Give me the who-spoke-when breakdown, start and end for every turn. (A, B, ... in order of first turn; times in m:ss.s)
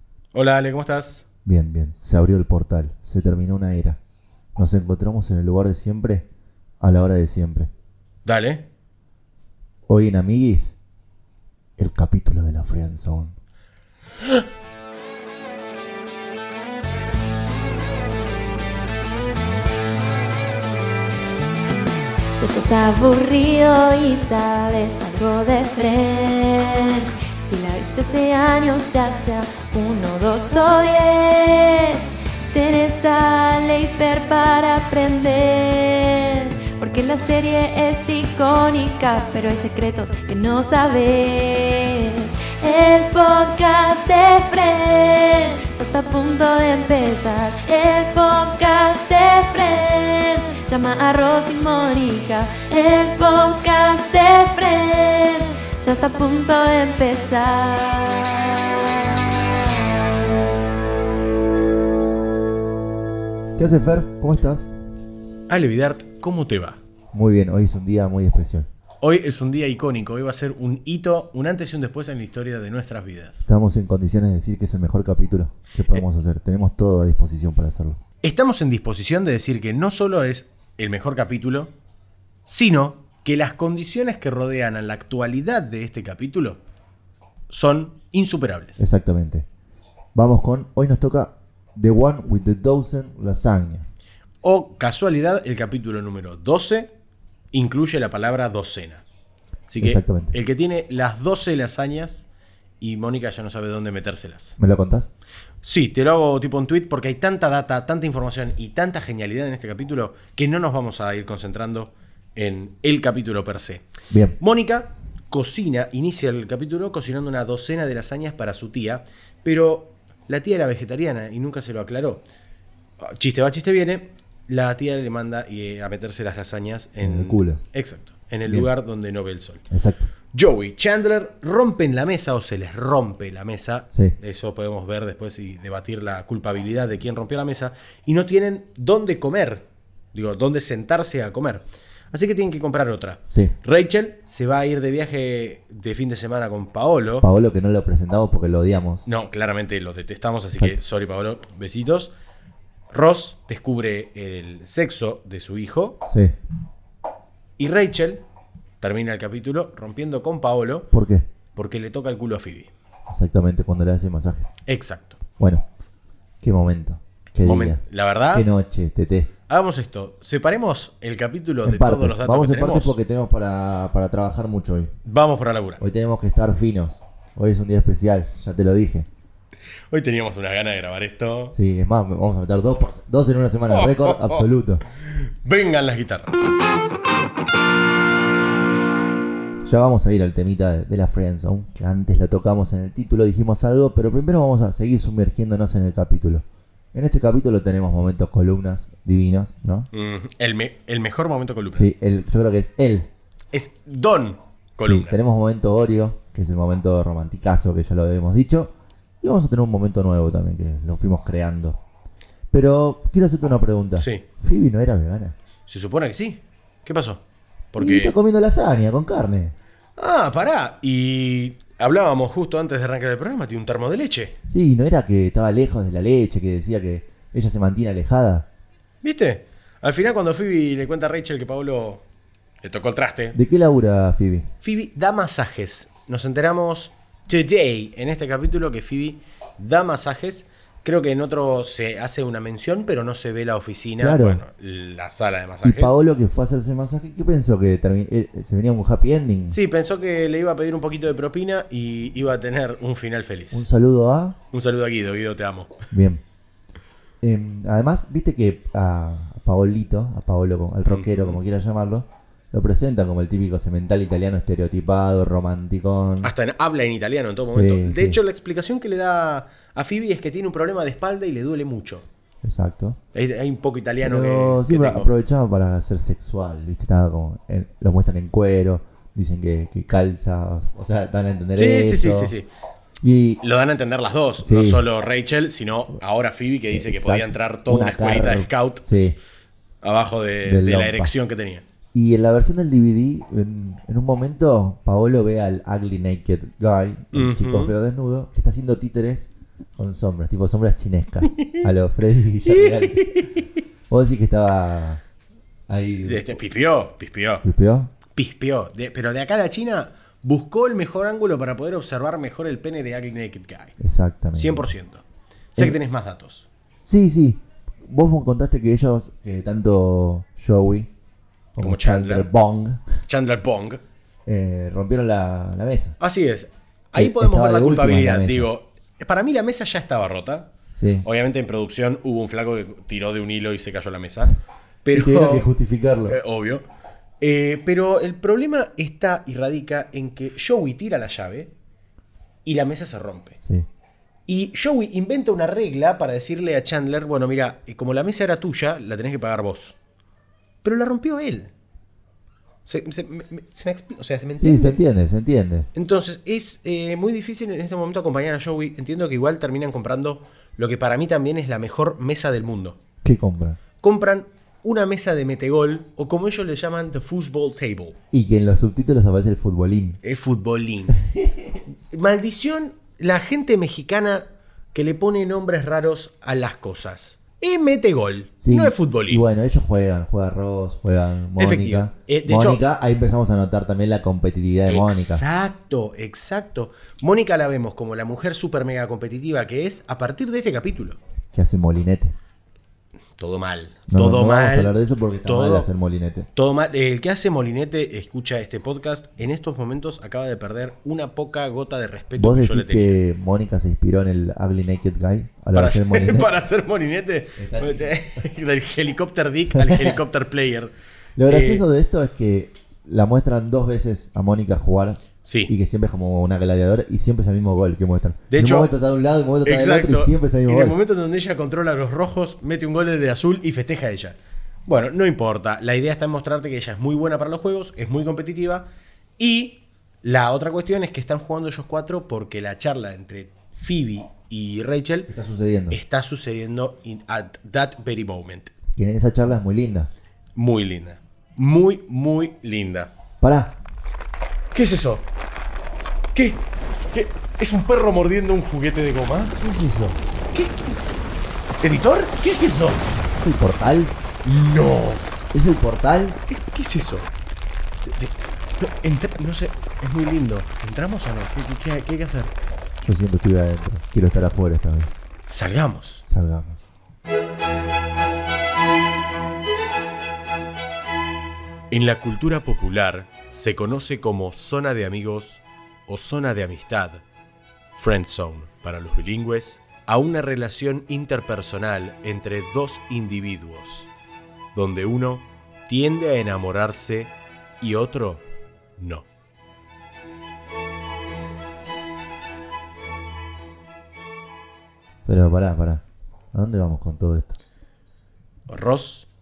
0:00.3-0:01.2 A
0:01.4-0:04.0 B
0:04.6-0:06.3 B
0:06.8-0:07.7 B
0:08.2-0:08.6 A
0:09.9-0:10.8 B
0:11.8-0:13.4 B
0:22.4-0:58.5 C
1:03.6-1:04.7 B
1:05.5-1:06.8 A
1:07.1-1:08.7 B
1:09.0-1:13.5 A
1:13.5-1:18.0 B
1:18.2-1:21.7 A
1:22.5-1:26.6 A
1:27.5-1:28.8 A
1:28.8-1:29.5 B
1:30.1-1:33.9 B
1:34.4-1:36.9 A
1:37.5-1:39.0 A
1:39.7-1:42.3 A
1:39.8-1:40.4 B
1:42.8-1:44.6 A
1:44.6-1:45.1 B
1:45.6-1:53.9 A
1:54.1-1:54.4 B
1:54.4-2:02.2 A
2:03.0-2:09.6 A
2:07.0-2:07.6 B
2:09.7-2:10.1 B
2:10.3-2:27.3 A
2:13.9-2:14.2 B
2:27.2-2:29.1 B
2:29.0-2:32.1 A
2:32.9-2:36.0 A
2:36.0-2:36.4 B
2:37.6-2:38.2 A
2:38.8-2:40.9 A
2:40.9-2:41.3 B
2:41.6-2:42.7 A
2:43.1-2:44.6 B
2:44.7-2:45.2 A
2:45.4-2:45.7 B
2:46.4-2:49.3 B
2:47.4-2:48.5 A
2:49.5-2:53.0 A
2:51.6-2:54.9 B
2:55.0-2:55.8 A
2:55.8-2:59.1 B
2:59.9-3:01.6 A
3:01.5-3:04.8 B
3:03.7-3:04.5 A
3:05.1-3:06.4 A
3:09.6-3:19.9 B
3:19.9-3:21.9 A
3:21.7-3:23.1 B
3:23.5-3:25.2 A
3:24.8-3:31.8 B
3:32.5-3:35.4 B
3:34.0-3:34.2 A
3:35.7-3:37.2 A
3:37.7-3:38.1 A
3:37.8-3:39.6 B
3:40.0-3:44.3 A
3:44.5-3:48.5 B
3:49.0-3:52.0 A
3:52.6-3:53.4 A
3:53.3-3:54.5 B
3:54.6-4:06.0 A
4:04.0-4:04.4 B
4:05.6-4:09.6 B
4:09.5-4:13.7 A
4:13.5-4:14.4 B
4:14.5-4:15.9 A
4:15.9-4:16.2 B
4:17.2-4:26.3 B
4:20.9-4:21.4 A
4:26.2-4:32.1 A
4:27.4-4:28.2 B
4:32.4-4:33.0 B
4:33.1-4:35.1 A
4:34.0-4:42.3 B
4:41.6-4:42.5 A
4:43.0-4:43.4 B
4:43.4-4:48.8 A
4:44.4-4:44.9 B
4:46.7-4:49.2 B
4:49.8-4:51.6 A
4:50.4-4:51.1 B
4:51.9-5:03.2 B
4:57.1-4:57.7 A
5:01.3-5:01.6 A
5:02.5-5:03.5 A
5:03.9-5:05.0 B
5:05.7-5:06.4 B
5:06.0-5:07.4 A
5:07.4-5:07.9 B
5:08.1-5:13.8 A
5:13.8-5:14.7 B
5:14.4-5:16.5 A
5:16.8-5:20.9 B
5:21.6-5:22.9 B
5:21.6-5:22.3 A
5:23.1-5:23.8 A
5:24.3-5:26.0 B
5:26.0-5:30.5 A
5:27.0-5:28.5 B
5:30.8-5:31.1 B
5:31.0-5:35.5 A
5:34.9-5:36.2 B
5:36.1-5:36.6 A
5:37.2-5:41.5 A
5:42.4-5:43.4 A
5:43.4-5:43.7 B
5:44.3-5:49.8 A
5:50.6-5:51.5 A
5:52.6-5:54.8 A
5:54.4-5:55.7 B
5:55.8-6:02.8 A
6:03.0-6:03.6 B
6:03.8-6:08.0 A
6:08.1-6:10.0 B
6:10.0-6:11.0 A
6:11.0-6:11.6 B
6:11.8-6:19.2 A
6:18.4-6:25.2 B
6:21.4-6:22.6 A
6:24.7-6:31.0 A
6:31.3-6:32.2 B
6:33.2-6:35.7 A
6:33.9-6:36.3 B
6:36.4-6:43.0 A
6:42.2-6:46.3 B
6:45.5-6:50.7 A
6:47.4-6:48.0 B
6:49.6-6:50.0 B
6:51.2-7:00.8 B
6:51.3-6:51.6 A
6:55.2-6:55.5 A
6:58.3-6:58.7 A
6:59.4-7:08.7 A
7:09.2-7:15.1 A
7:15.1-7:15.8 B
7:15.7-7:18.5 A
7:18.8-7:19.9 B
7:20.4-7:22.9 A
7:23.2-7:23.6 B
7:24.5-7:25.1 A
7:26.1-7:29.4 A
7:29.4-7:30.0 B
7:30.3-7:30.8 A
7:31.6-7:32.9 A
7:33.2-7:33.9 B
7:34.2-7:35.1 A
7:35.3-7:36.2 B
7:36.3-7:37.1 A
7:37.9-7:42.3 A
7:42.8-7:45.0 B
7:45.3-7:46.0 A
7:46.1-7:46.7 B
7:51.7-7:57.0 A
7:57.8-8:03.9 A
8:04.5-8:08.2 A
8:08.8-8:09.1 A
8:15.1-8:17.4 B
8:18.5-8:19.1 A